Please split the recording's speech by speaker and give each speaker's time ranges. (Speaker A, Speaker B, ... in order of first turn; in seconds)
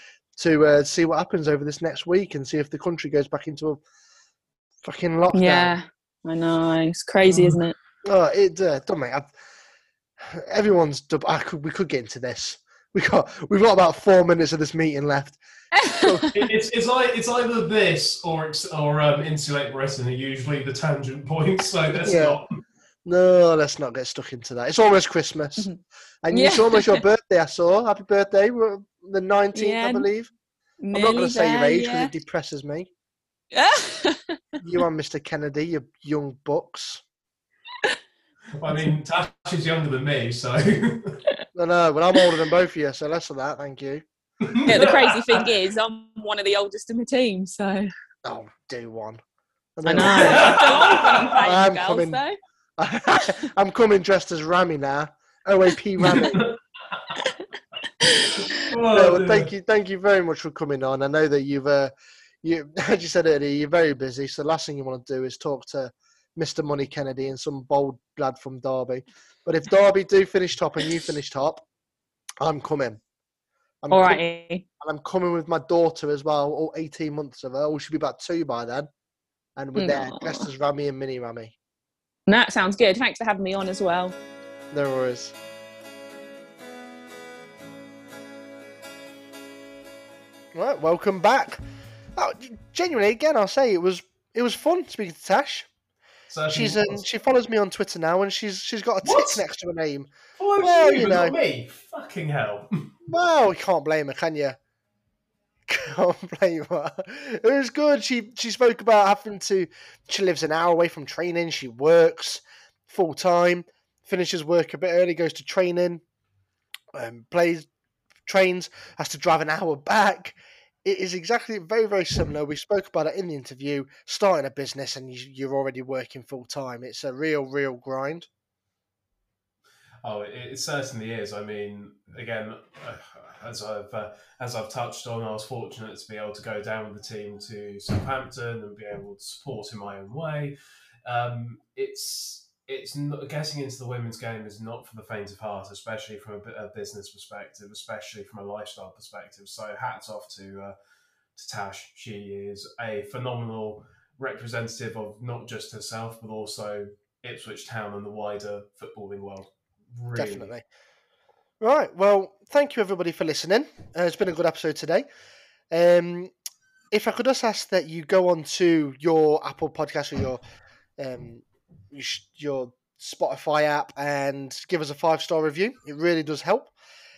Speaker A: 0.4-3.8, 4.8-5.8, 8.1-9.3, 10.2-16.3, 22.0-22.4, 23.1-25.7, 26.2-30.3, 30.9-32.9, 34.6-37.0, 41.5-44.0, 48.2-49.2, 49.8-50.7, 51.4-52.2, 52.8-56.5, 58.9-71.6, 72.4-73.0, 73.8-74.2, 74.8-78.9, 79.6-81.5, 84.7-85.3, 90.5-91.6, 92.2-95.7, 96.5-101.4, 103.1-104.6, 105.7-116.0, 116.9-117.7, 118.3-128.3, 160.2-160.6, 161.6-165.1, 165.7-166.3, 166.9-170.4, 171.0-176.7
Speaker B: 5.3-7.8, 15.8-16.3, 26.3-27.0, 29.6-30.1, 30.8-32.1, 33.5-34.4, 44.7-47.9, 49.9-52.4, 58.0-58.6, 73.9-74.7, 79.8-80.5, 82.3-84.2
Speaker C: 7.3-7.6, 16.3-22.5, 38.5-41.2, 44.4-45.4, 50.0-51.0, 56.0-56.6, 58.5-59.5, 96.3-97.0, 99.0-99.4, 100.4-102.9, 130.0-140.5, 141.1-150.8, 151.4-160.5